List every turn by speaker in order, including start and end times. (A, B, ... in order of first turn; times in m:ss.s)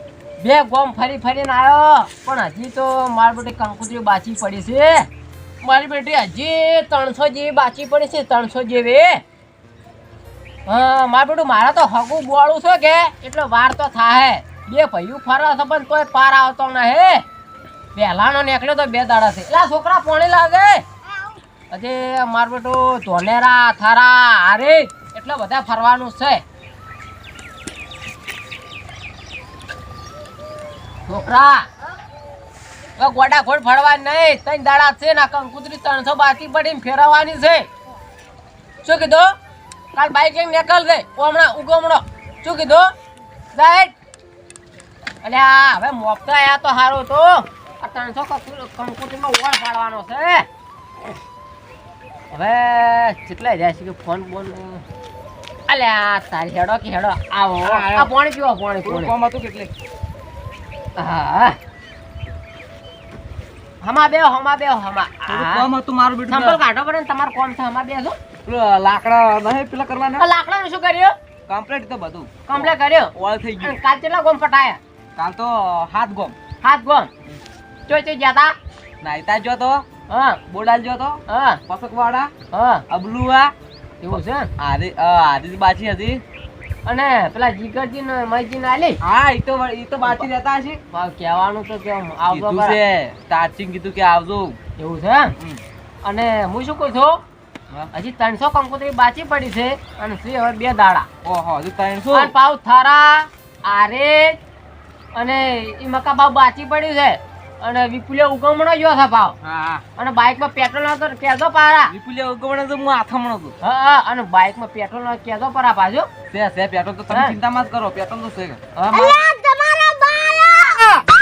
0:00.4-0:05.1 A
0:05.6-0:09.2 A
0:10.7-0:17.2 A
0:18.0-0:20.8 A
0:21.0-0:21.4 B
0:21.7-0:26.4 A
0:31.1-0:31.7 A
0:33.0-0:37.7 A
0:38.8-0:39.3 A
0:39.9-0:42.9 A
0:43.6-0:44.0 A
0:45.2-0:50.5 A
0:52.3-0:54.8 A
0:55.7-0:59.1 A
0:57.6-0:58.1 C
0:58.8-0:59.7 C
1:01.0-1:01.6 A
1:03.8-1:05.6 A
1:05.3-1:06.6 C
1:06.3-1:08.2 A
1:08.5-1:10.2 C
1:10.2-1:11.1 A
1:11.5-1:13.8 C
1:12.5-1:14.8 A
1:15.2-1:16.4 C
1:16.6-1:17.1 A
1:17.9-1:18.5 A
1:19.0-1:19.8 C
1:20.1-1:20.4 A
1:20.5-1:22.3 C
1:21.3-1:21.6 A
1:22.5-1:22.8 A
1:22.9-1:23.5 C
1:24.0-1:24.5 A
1:24.6-1:26.2 C
1:26.9-1:29.0 A
1:29.0-1:30.8 C
1:30.9-1:32.8 A
1:32.3-1:34.6 C
1:34.8-1:35.3 A
1:36.0-1:37.2 A
1:37.9-1:41.1 A
1:41.2-1:42.3 C
1:42.1-1:44.4 A
1:45.1-1:49.4 A
1:49.4-1:49.8 C
1:50.0-1:51.9 A
1:51.9-1:53.6 C
1:53.6-1:56.1 A
1:56.3-1:58.6 C
1:57.1-1:57.4 A
1:58.8-1:59.2 A
1:58.9-2:01.1 B